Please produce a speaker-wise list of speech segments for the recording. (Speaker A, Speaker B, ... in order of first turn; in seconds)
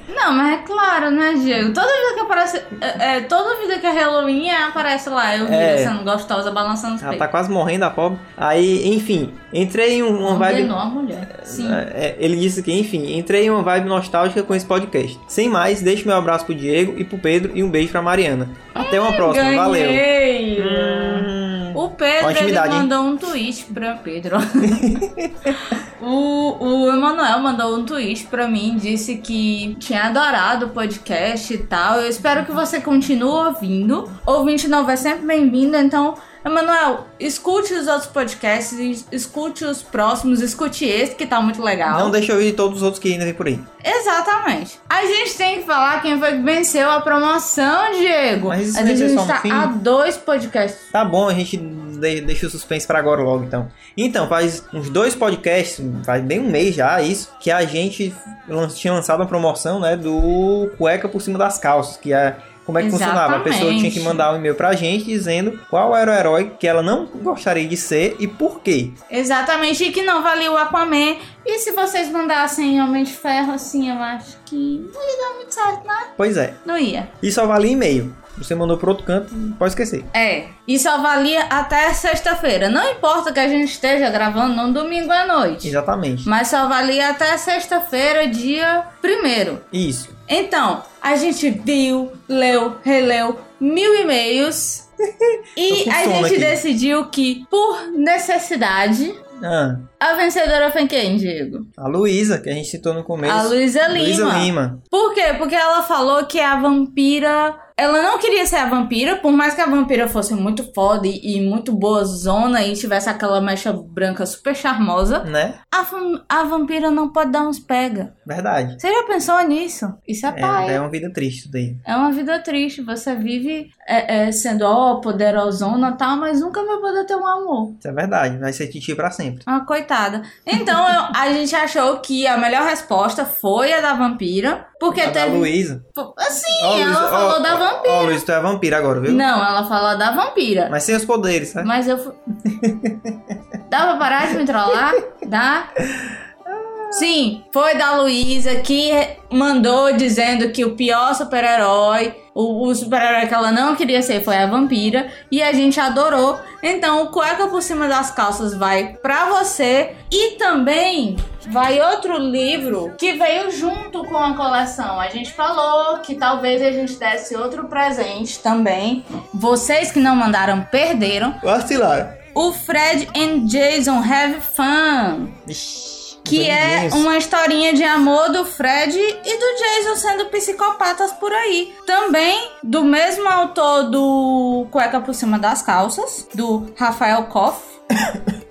Speaker A: 0.1-7.3, 10.2-11.9, 18.8-24.9, 25.5-42.1, 43.8-50.9, 62.8-64.2, 69.1-76.1, 76.6-77.1, 80.1-89.7, 90.3-94.8, 95.6-99.2, 100.0-101.7, 103.2-118.1, 118.8-120.8, 121.8-127.8, 129.5-138.2, 139.1-140.7, 141.6-142.2, 143.7-145.7, 146.9-171.4, 172.3-175.4, 176.3-187.8
Speaker B: 5.4-6.0, 7.0-10.8, 11.3-22.9, 24.6-25.5, 41.9-43.7, 48.5-49.8, 50.9-69.0, 76.2-76.6, 77.2-80.1, 85.6-86.3, 89.7-90.1, 95.2-96.6, 99.4-99.9, 101.8-104.8, 115.2-115.6, 118.3-118.8, 120.3-121.8, 127.8-129.5, 134.9-135.8, 136.6-139.3, 140.7-141.7, 142.5-143.2, 146.5-147.1, 171.4-172.2, 175.5-177.1